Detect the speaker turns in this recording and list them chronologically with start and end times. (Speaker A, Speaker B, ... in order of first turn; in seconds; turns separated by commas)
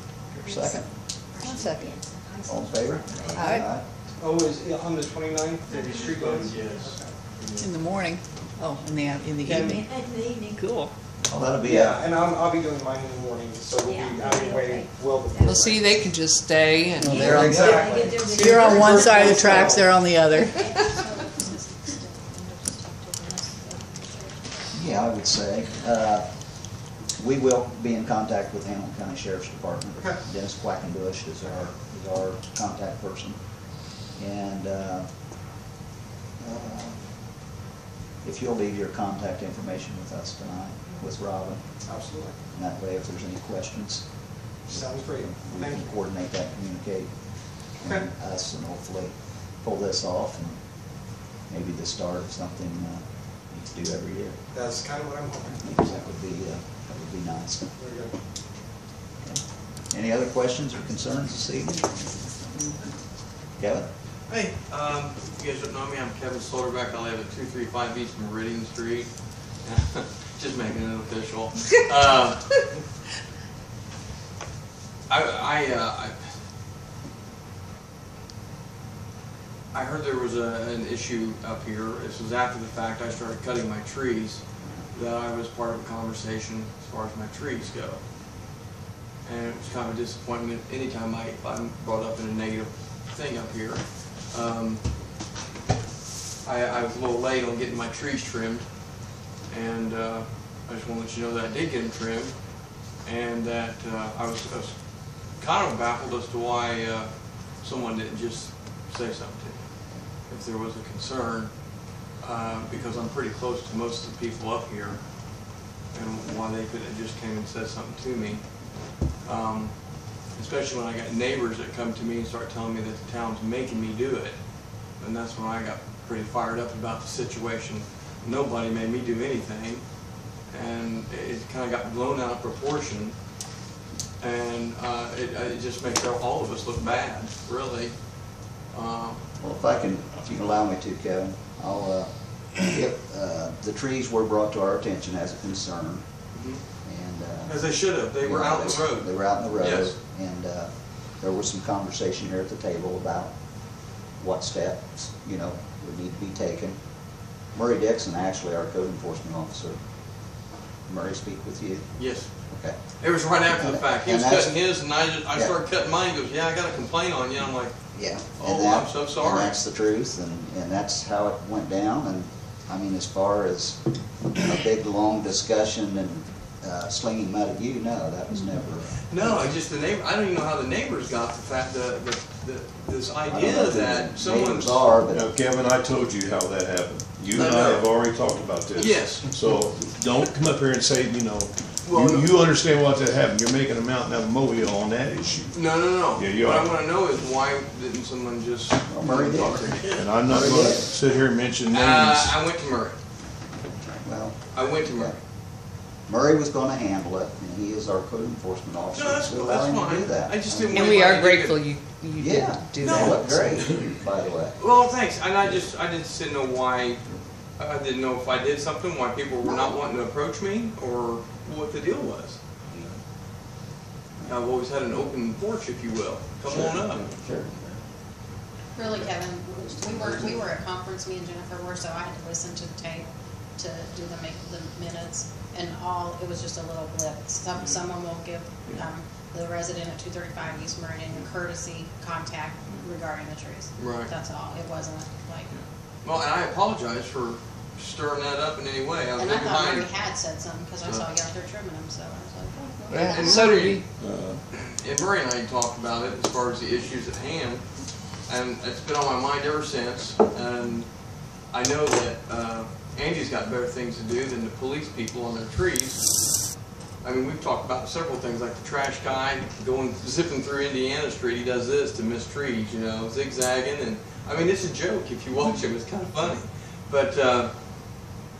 Speaker A: 0.3-0.9, Speaker B: 1.4-2.0, Speaker A: 2.4-3.9, Speaker B: 3.3-3.7, Speaker C: 4.2-7.2, Speaker B: 6.0-6.7, Speaker B: 7.5-9.9, Speaker C: 9.4-9.8, Speaker B: 10.5-10.9, Speaker A: 11.3-12.0, Speaker C: 11.6-16.1, Speaker D: 15.5-17.9, Speaker B: 17.0-17.8, Speaker A: 17.0-18.1, Speaker C: 17.3-19.9, Speaker B: 18.3-20.7, Speaker E: 20.4-24.4, Speaker A: 24.7-33.4, Speaker A: 34.1-35.1, Speaker A: 36.4-37.1, Speaker A: 38.2-41.7, Speaker C: 41.9-42.4, Speaker A: 42.5-44.1, Speaker A: 44.6-50.6, Speaker C: 44.7-45.9, Speaker A: 51.5-54.4, Speaker C: 54.5-55.6, Speaker A: 55.6-57.7, Speaker C: 57.8-58.1, Speaker A: 59.2-62.2, Speaker A: 63.6-63.9, Speaker F: 64.3-69.1, Speaker F: 69.6-72.7, Speaker F: 75.1-76.2, Speaker F: 79.7-88.0, Speaker F: 89.2-94.9, Speaker F: 96.4-98.7, Speaker F: 99.5-111.5, Speaker F: 112.2-118.6, Speaker F: 119.2-133.2, Speaker F: 134.2-138.0, Speaker F: 138.7-139.2, Speaker A: 139.4-146.1, Speaker F: 146.3-146.6, Speaker A: 146.8-159.8, Speaker F: 147.5-149.9, Speaker A: 160.9-161.9, Speaker F: 162.0-162.3, Speaker A: 162.5-162.8, Speaker F: 163.0-167.7, Speaker A: 163.3-164.7, Speaker A: 167.9-179.5, Speaker F: 168.3-169.6, Speaker F: 179.1-184.9, Speaker A: 183.2-185.3, Speaker G: 185.1-196.8, Speaker F: 187.3-188.0, Speaker F: 188.8-189.3, Speaker F: 191.8-192.4, Speaker F: 195.5-200.1, Speaker A: 198.9-200.9, Speaker G: 199.9-202.4, Speaker F: 201.7-203.0, Speaker A: 204.0-205.2, Speaker F: 204.5-205.2, Speaker A: 206.1-211.0, Speaker F: 208.9-211.7, Speaker B: 210.7-211.7, Speaker D: 211.6-213.6, Speaker A: 212.2-214.6, Speaker B: 212.4-212.9, Speaker F: 212.8-213.9, Speaker F: 214.6-217.1, Speaker F: 217.6-222.4, Speaker A: 219.4-219.8, Speaker F: 224.3-227.1, Speaker G: 226.5-227.1, Speaker A: 227.2-227.5, Speaker E: 228.8-245.5, Speaker G: 229.8-230.3, Speaker F: 243.8-244.1, Speaker F: 246.0-250.0, Speaker E: 249.2-253.4, Speaker F: 250.8-251.1, Speaker B: 252.9-253.3, Speaker D: 252.9-253.8, Speaker F: 253.1-253.8, Speaker G: 254.0-254.4, Speaker F: 254.5-257.6, Speaker F: 258.3-260.9, Speaker F: 261.5-266.3, Speaker F: 267.0-278.0